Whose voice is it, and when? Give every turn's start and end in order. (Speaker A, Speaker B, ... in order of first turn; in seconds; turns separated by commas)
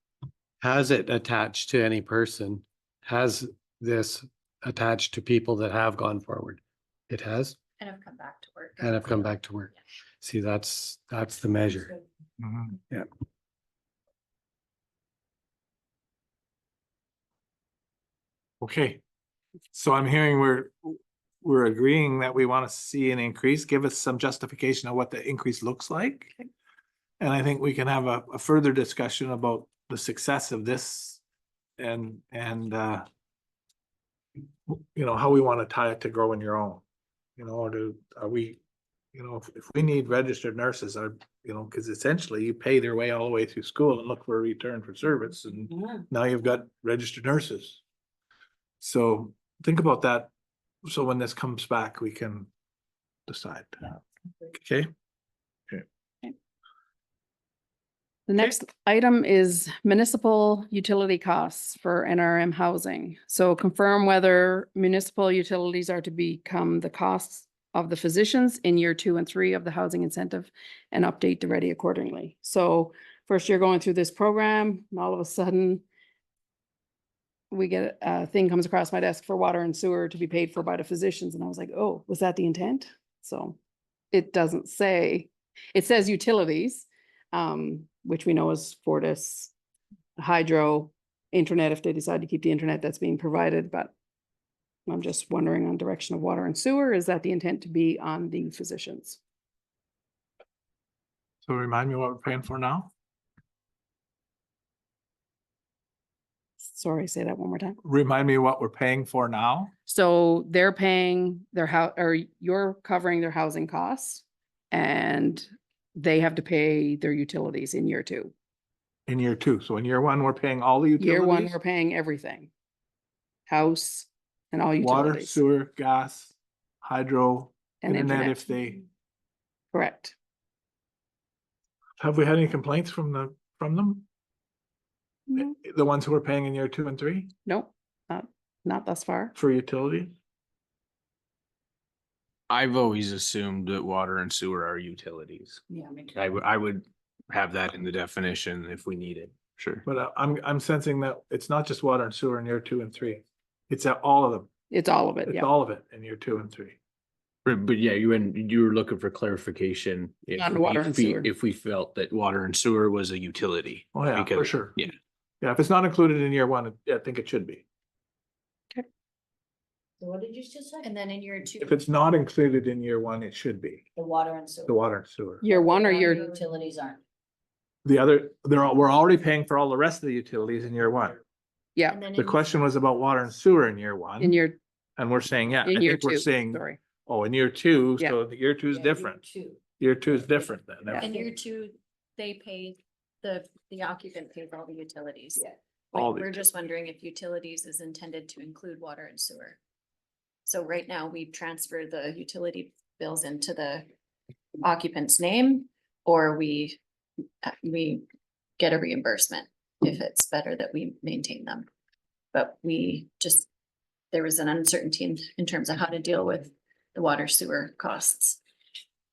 Speaker A: 0.6-7.6, Speaker B: 7.8-9.3, Speaker A: 8.8-11.9, Speaker C: 12.4-12.8, Speaker C: 18.6-19.0, Speaker C: 19.7-26.4, Speaker C: 27.2-31.2, Speaker C: 31.8-33.0, Speaker C: 34.7-36.8, Speaker C: 37.4-38.6, Speaker C: 39.1-47.8, Speaker C: 48.8-50.3, Speaker C: 50.9-52.5, Speaker C: 53.3-54.0, Speaker C: 54.5-54.9, Speaker D: 58.3-75.8, Speaker D: 77.5-83.6, Speaker D: 84.1-89.5, Speaker D: 90.2-93.9, Speaker D: 94.9-99.2, Speaker C: 101.5-102.9, Speaker D: 106.6-107.8, Speaker C: 107.8-109.7, Speaker D: 109.9-118.3, Speaker C: 119.1-121.6, Speaker D: 121.0-122.5, Speaker D: 123.5-125.4, Speaker C: 124.8-128.8, Speaker D: 127.8-128.5, Speaker D: 129.7-130.1, Speaker C: 132.0-134.1, Speaker C: 135.4-137.3, Speaker D: 137.5-139.3, Speaker C: 139.4-140.2, Speaker E: 142.5-149.8, Speaker C: 149.9-154.5, Speaker D: 154.7-155.5, Speaker C: 155.2-156.8, Speaker E: 157.4-165.0, Speaker D: 160.3-161.2, Speaker C: 163.9-164.8, Speaker C: 165.4-167.6, Speaker F: 170.0-170.9, Speaker B: 170.8-171.8, Speaker C: 171.6-173.9, Speaker F: 173.9-174.8, Speaker C: 174.7-175.4, Speaker D: 175.4-176.4, Speaker F: 175.5-177.0, Speaker C: 177.8-181.2, Speaker D: 181.8-182.1, Speaker B: 181.9-182.4, Speaker C: 182.1-184.4, Speaker D: 184.2-184.6, Speaker C: 185.0-189.2, Speaker D: 185.6-186.8, Speaker F: 188.7-189.6, Speaker C: 189.8-191.1, Speaker B: 191.0-199.6, Speaker C: 195.9-196.3, Speaker B: 200.5-203.9, Speaker B: 204.6-206.8, Speaker B: 207.4-208.1, Speaker B: 208.6-211.7, Speaker B: 212.3-213.5, Speaker B: 214.1-218.4